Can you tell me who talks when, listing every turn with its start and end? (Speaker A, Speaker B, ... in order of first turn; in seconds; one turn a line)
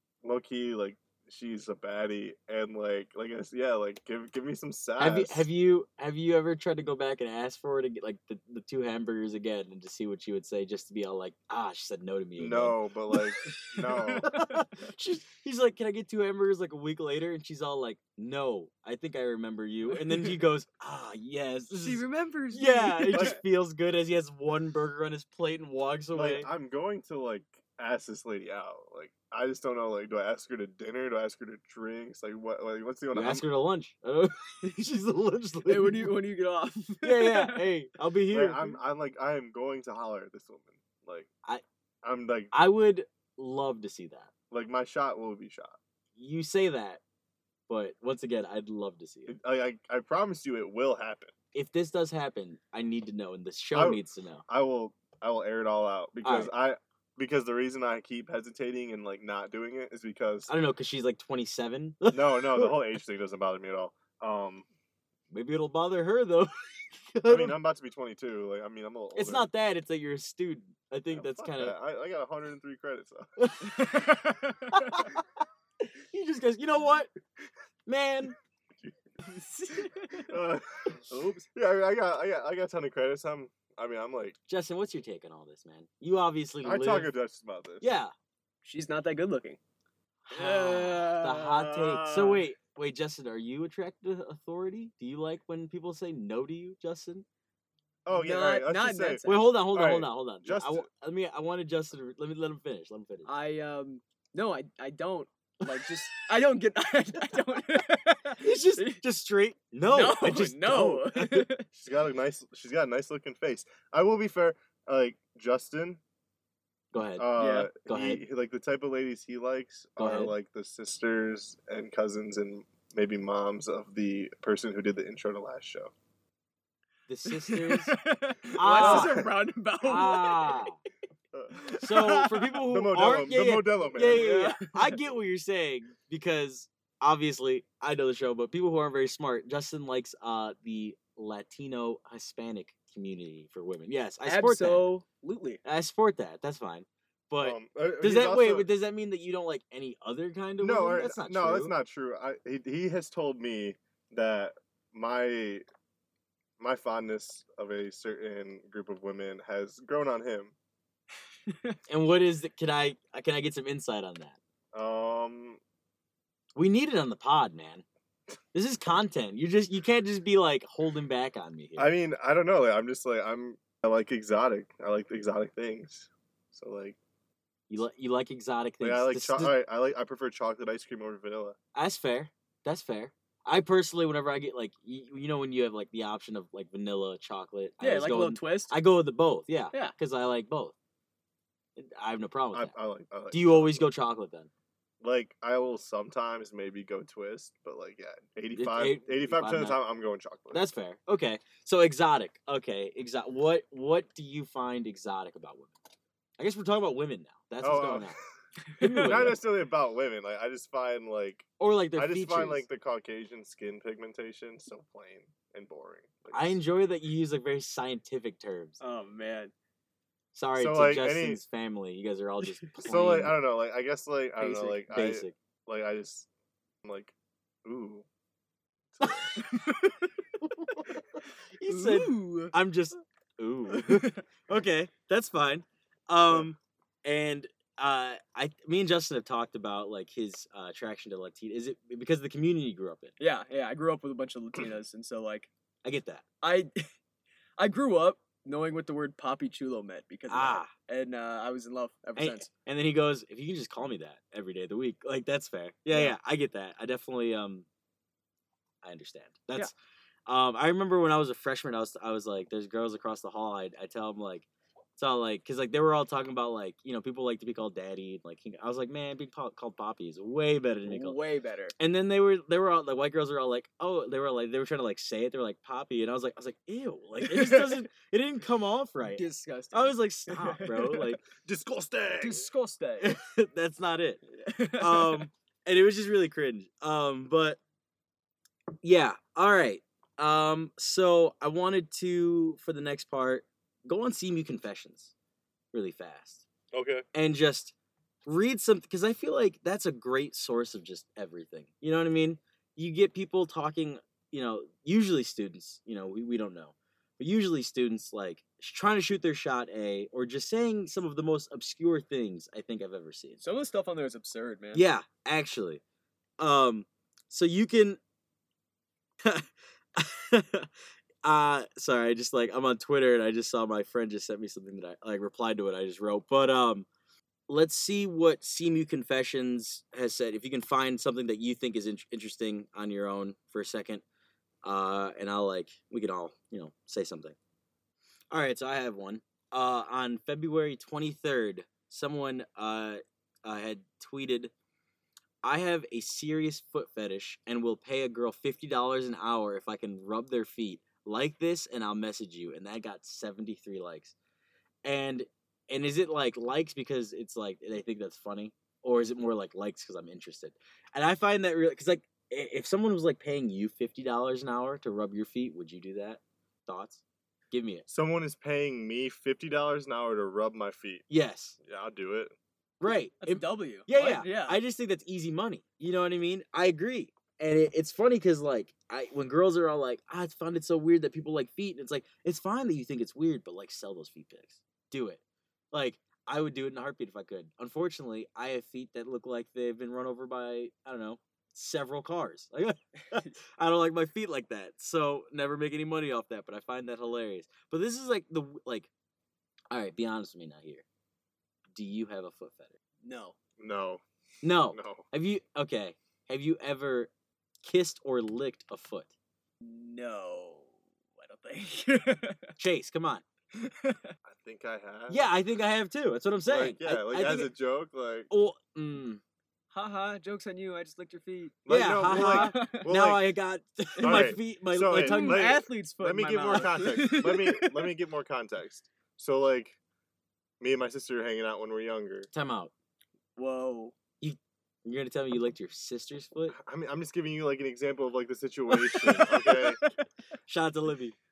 Speaker A: 0.2-5.5
Speaker B: 5.0-12.8
Speaker A: 12.4-14.3
Speaker B: 13.4-26.5
Speaker C: 13.8-14.6
Speaker C: 19.9-20.4
Speaker C: 21.8-23.4
Speaker A: 23.1-23.4
Speaker A: 26.1-33.4
Speaker B: 33.1-36.1
Speaker C: 35.7-37.7
Speaker B: 37.0-38.7
Speaker A: 38.3-41.3
Speaker A: 42.0-42.5
Speaker B: 42.5-44.3
Speaker A: 44.5-45.8
Speaker B: 46.2-47.0
Speaker B: 47.7-49.4
Speaker A: 49.3-51.3
Speaker B: 51.5-54.5
Speaker A: 53.8-60.5
Speaker B: 56.2-56.5
Speaker B: 60.5-62.8
Speaker A: 62.1-64.7
Speaker B: 65.3-67.6
Speaker A: 67.3-69.5
Speaker B: 69.2-71.8
Speaker A: 71.1-73.3
Speaker B: 73.4-74.0
Speaker C: 73.6-75.1
Speaker B: 74.7-75.3
Speaker B: 75.8-77.1
Speaker B: 77.9-78.3
Speaker C: 79.2-80.3
Speaker A: 80.3-84.4
Speaker C: 81.1-81.4
Speaker B: 84.5-87.1
Speaker A: 86.6-87.9
Speaker B: 87.8-88.1
Speaker C: 88.6-89.6
Speaker B: 90.3-97.2
Speaker C: 90.3-91.7
Speaker A: 91.7-92.5
Speaker A: 98.1-100.9
Speaker C: 98.1-99.5
Speaker B: 99.2-103.3
Speaker C: 103.3-109.0
Speaker B: 108.4-111.5
Speaker C: 109.8-111.7
Speaker A: 111.7-116.0
Speaker B: 116.9-117.3
Speaker A: 117.2-125.9
Speaker C: 117.4-117.7
Speaker B: 117.8-118.2
Speaker B: 120.0-120.3
Speaker B: 127.1-128.0
Speaker C: 127.3-130.7
Speaker B: 128.6-129.2
Speaker A: 128.7-129.3
Speaker B: 129.8-130.8
Speaker A: 131.3-132.0
Speaker C: 131.7-132.5
Speaker B: 131.8-144.8
Speaker A: 132.6-134.3
Speaker C: 134.0-135.0
Speaker C: 144.3-145.6
Speaker B: 145.6-151.7
Speaker A: 147.4-148.7
Speaker A: 150.6-155.6
Speaker A: 156.6-160.6
Speaker C: 161.5-161.8
Speaker B: 161.9-164.4
Speaker A: 164.7-165.6
Speaker B: 166.6-167.8
Speaker B: 168.5-171.9
Speaker A: 171.8-177.0
Speaker B: 177.7-179.6
Speaker A: 178.8-181.6
Speaker B: 181.8-190.7
Speaker C: 187.8-188.7
Speaker B: 191.8-192.7
Speaker A: 192.5-193.9
Speaker B: 193.3-194.5
Speaker A: 195.0-200.6
Speaker B: 198.5-199.8
Speaker B: 200.5-205.7
Speaker B: 206.4-208.2
Speaker A: 207.6-208.2
Speaker C: 208.7-209.3
Speaker B: 208.8-209.4
Speaker A: 209.1-216.6
Speaker B: 211.6-212.7
Speaker B: 216.3-218.8
Speaker C: 218.8-219.5
Speaker B: 220.3-223.3
Speaker A: 220.6-221.4
Speaker A: 222.8-226.3
Speaker B: 224.4-225.3
Speaker A: 226.8-227.1
Speaker A: 227.7-228.1
Speaker A: 228.9-229.4
Speaker B: 229.0-229.4
Speaker C: 229.4-230.1
Speaker B: 230.4-231.0
Speaker B: 231.6-243.1
Speaker C: 231.7-232.5
Speaker C: 233.7-234.2
Speaker C: 243.2-245.5
Speaker B: 245.8-246.2
Speaker C: 246.4-246.8
Speaker C: 247.6-252.5
Speaker B: 250.3-250.7
Speaker B: 252.2-257.7
Speaker C: 255.9-256.2
Speaker B: 258.8-259.7
Speaker B: 260.3-264.5
Speaker B: 265.0-271.2
Speaker C: 270.9-271.8
Speaker B: 271.8-281.2
Speaker C: 277.2-277.9
Speaker C: 279.1-281.2
Speaker A: 281.4-282.5
Speaker C: 282.2-283.1
Speaker B: 283.0-284.2
Speaker C: 284.3-285.3
Speaker B: 284.8-287.6
Speaker B: 288.8-295.1
Speaker B: 295.7-296.4
Speaker A: 296.7-297.1
Speaker B: 297.1-297.7
Speaker B: 298.3-313.4
Speaker C: 313.4-314.8
Speaker B: 314.7-315.8
Speaker B: 316.4-318.0
Speaker B: 319.2-320.7
Speaker B: 321.2-326.9
Speaker B: 327.5-334.0
Speaker B: 334.6-337.4
Speaker B: 338.3-344.5
Speaker B: 345.4-354.1
Speaker B: 354.9-367.9
Speaker A: 367.9-371.1
Speaker B: 371.1-371.6
Speaker A: 371.6-372.4
Speaker B: 372.8-385.2
Speaker C: 373.2-374.6
Speaker B: 385.7-398.9
Speaker B: 399.7-400.8
Speaker B: 401.8-402.7
Speaker C: 403.0-403.4
Speaker A: 403.6-404.0
Speaker B: 404.4-407.1
Speaker A: 404.7-405.1
Speaker B: 407.6-409.1
Speaker C: 409.6-412.5
Speaker B: 412.6-413.2
Speaker C: 413.5-414.1
Speaker A: 414.2-415.3
Speaker B: 415.1-417.5
Speaker A: 416.4-418.3
Speaker B: 418.3-419.2
Speaker C: 419.7-422.9
Speaker A: 421.7-423.3
Speaker B: 421.7-425.4
Speaker C: 424.0-424.3
Speaker A: 424.0-429.8
Speaker C: 424.9-427.9
Speaker A: 430.6-432.3
Speaker B: 432.3-432.7
Speaker C: 433.4-433.9
Speaker B: 434.2-436.6
Speaker A: 436.5-439.8
Speaker C: 438.9-440.0
Speaker B: 440.5-441.1